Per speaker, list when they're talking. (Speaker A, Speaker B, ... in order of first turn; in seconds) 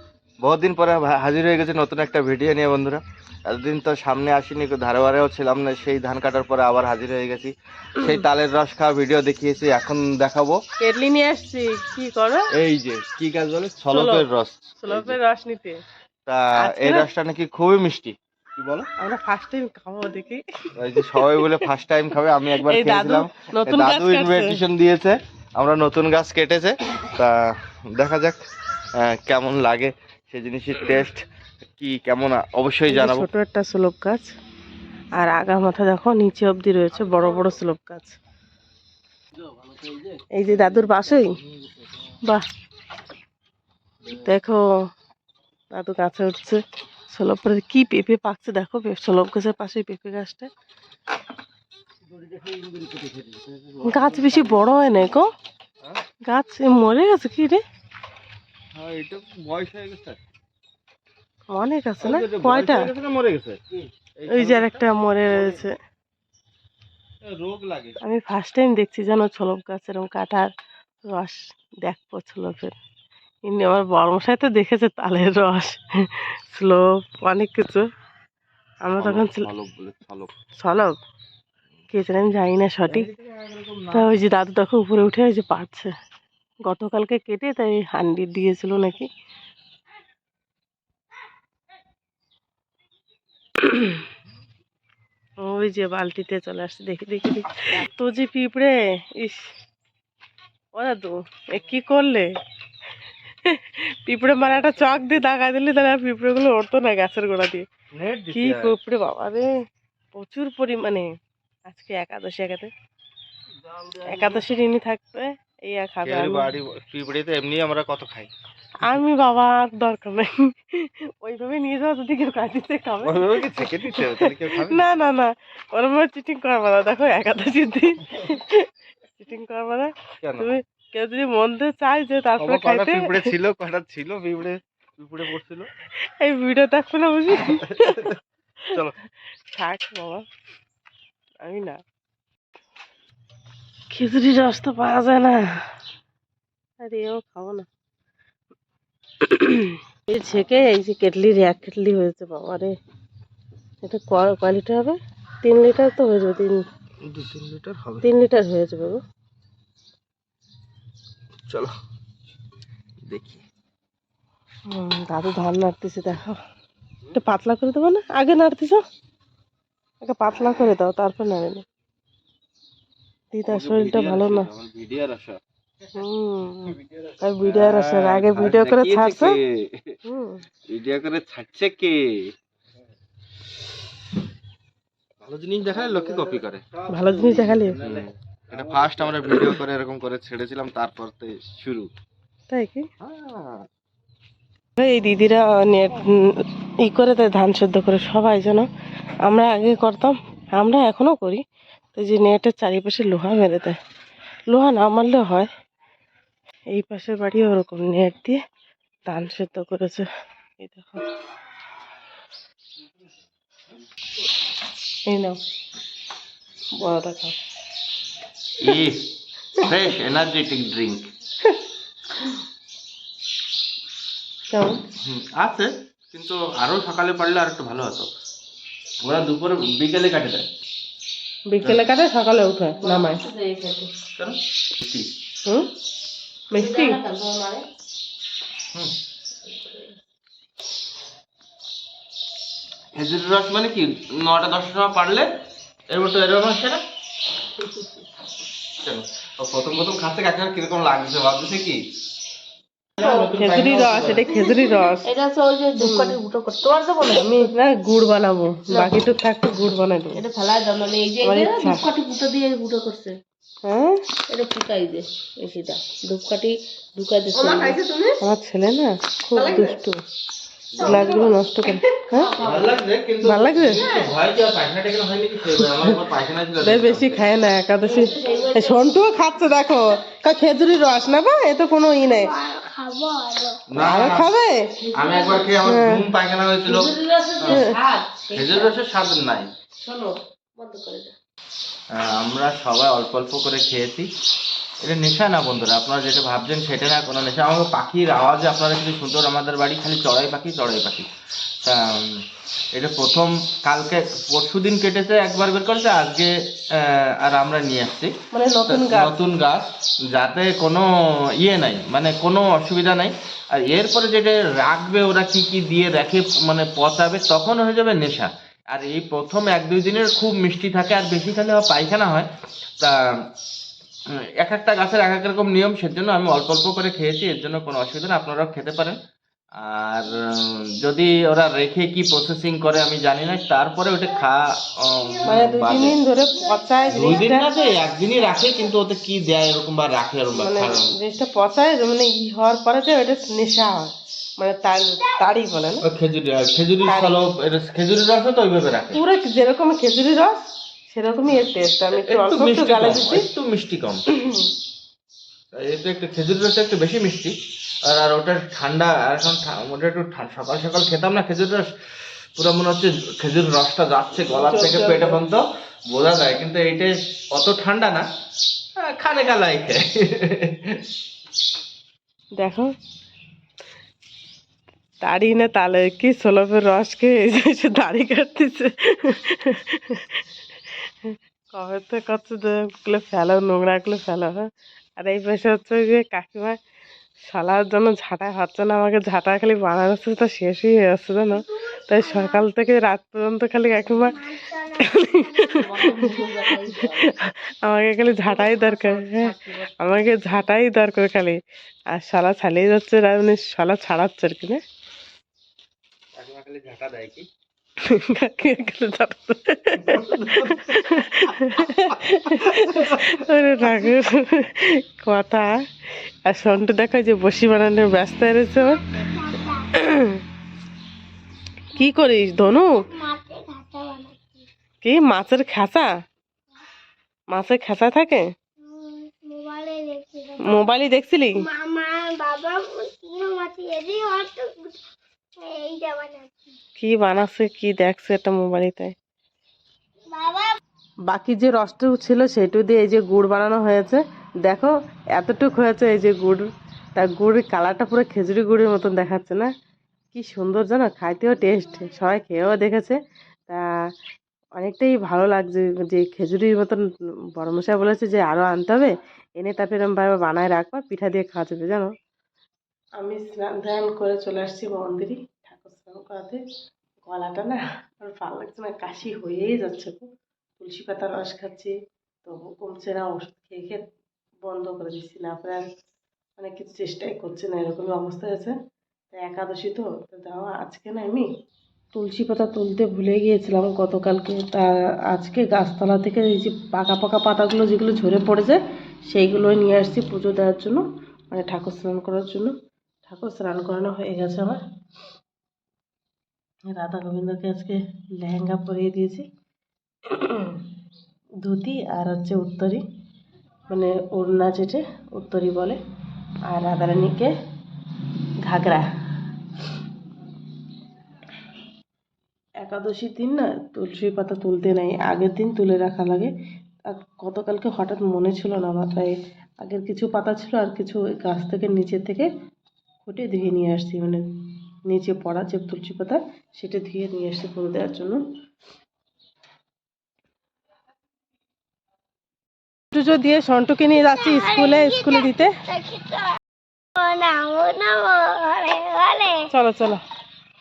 Speaker A: 0.4-10.6, 12.6-15.2, 16.3-18.9, 20.8-27.4, 27.9-28.4, 29.0-31.2, 31.8-33.3, 52.2-54.6, 58.8-60.2, 62.0-63.6, 64.2-65.5, 67.2-68.0, 79.0-80.3, 82.9-84.1, 107.9-108.8, 116.0-118.3, 123.0-124.9, 130.2-130.5, 132.4-135.7, 137.5-138.2, 157.1-158.1, 161.5-161.7, 163.1-163.4, 173.5-175.4, 177.4-180.0, 180.7-182.3, 185.2-186.7, 187.8-191.9, 193.0-193.7, 218.6-219.0, 219.6-221.1, 225.0-228.1, 229.0-230.4, 234.2-235.1, 242.9-245.3, 245.9-246.8, 248.8-251.8, 253.0-254.3, 270.7-271.1, 272.4-277.2, 283.7-284.3, 284.9-287.7, 288.3-289.5, 291.9-294.1, 294.8-301.1, 301.6-302.2, 302.8-308.1, 308.7-310.9, 311.4-322.3, 322.8-323.2, 324.4-329.0, 329.6-336.0, 336.9-340.9, 345.9-349.0, 351.9-354.0, 355.5-357.3, 357.9-361.7, 362.4-368.1, 368.8-370.8, 406.2-407.3, 409.8-413.1
Speaker B: 10.8-12.5, 13.9-14.3, 14.8-15.8, 16.6-17.1, 19.0-21.6, 22.6-24.6, 32.9-34.3, 35.2-38.2, 40.4-41.4, 44.1-44.6, 45.7-50.5, 53.8-55.3, 56.3-57.6, 61.5-62.9, 64.3-65.7, 68.0-70.5, 71.0-72.7, 73.5-77.8, 78.8-79.5, 80.6-80.9, 81.9-83.1, 83.9-85.9, 86.7-89.1, 93.6-94.1, 95.4-99.5, 100.7-102.3, 103.4-107.6, 108.3-109.5, 110.1-111.1, 111.7-112.7, 114.0-116.5, 118.8-133.3, 136.0-138.2, 139.5-140.2, 141.4-141.8, 143.9-145.4, 146.8-147.7, 149.2-152.7, 153.8-156.6, 158.0-159.0, 164.7-166.4, 167.1-168.8, 170.0-171.6, 173.3-174.5, 175.9-179.4, 180.1-180.4, 186.9-187.8, 192.5-192.9, 194.8-196.1, 196.8-198.7, 199.3-201.4, 201.9-203.8, 204.5-205.5, 206.7-208.4, 209.1-210.1, 210.6-211.0, 215.1-215.4, 216.8-217.4, 224.5-224.8, 231.5-233.3, 236.5-237.0, 253.0-255.1, 255.8-256.2, 257.1-260.2, 261.2-261.9, 263.6-264.0, 268.2-270.0, 270.8-272.4, 273.2-274.0, 275.5-276.0, 276.6-282.3, 283.8-284.8, 285.6-286.1, 287.5-287.8, 308.3-309.2, 335.2-337.5, 340.4-345.8, 346.9-347.2, 348.9-353.2, 354.1-354.5, 364.3-365.2, 372.4-372.7, 375.0-380.2, 381.0-386.6, 387.2-401.4, 401.9-404.6, 407.8-415.5, 416.2-418.9, 419.7-420.2, 421.7-422.8, 424.8-425.9, 427.3-428.3, 430.4-431.5, 436.8-438.9, 441.1-449.5, 450.1-453.6, 454.6-456.9, 457.4-461.9, 463.0-466.4, 467.0-470.1, 470.6-473.8, 474.4-475.6, 476.4-478.6, 479.1-481.3, 481.9-492.5, 493.1-494.6, 496.7-499.2, 500.1-500.6, 501.4-502.8, 503.7-505.8, 506.5-507.3, 508.5-508.9, 512.6-516.3, 516.9-522.3, 523.0-524.2, 524.9-528.2, 532.9-535.6, 539.5-540.0
Speaker C: 232.8-233.9, 236.5-237.6, 239.5-239.9, 254.4-257.5, 260.1-263.2, 264.3-268.2, 269.3-269.8, 270.8-272.8, 277.8-279.0, 284.8-285.5, 286.7-288.7, 289.8-291.1, 395.4-397.0, 398.3-399.7
Speaker D: 267.3-267.7, 282.1-283.6, 336.6-336.9, 392.0-392.4, 394.0-395.6, 418.8-419.7, 422.9-424.4, 428.6-430.7, 431.4-434.7, 435.4-436.3, 440.1-440.6, 534.0-536.4, 537.0-539.5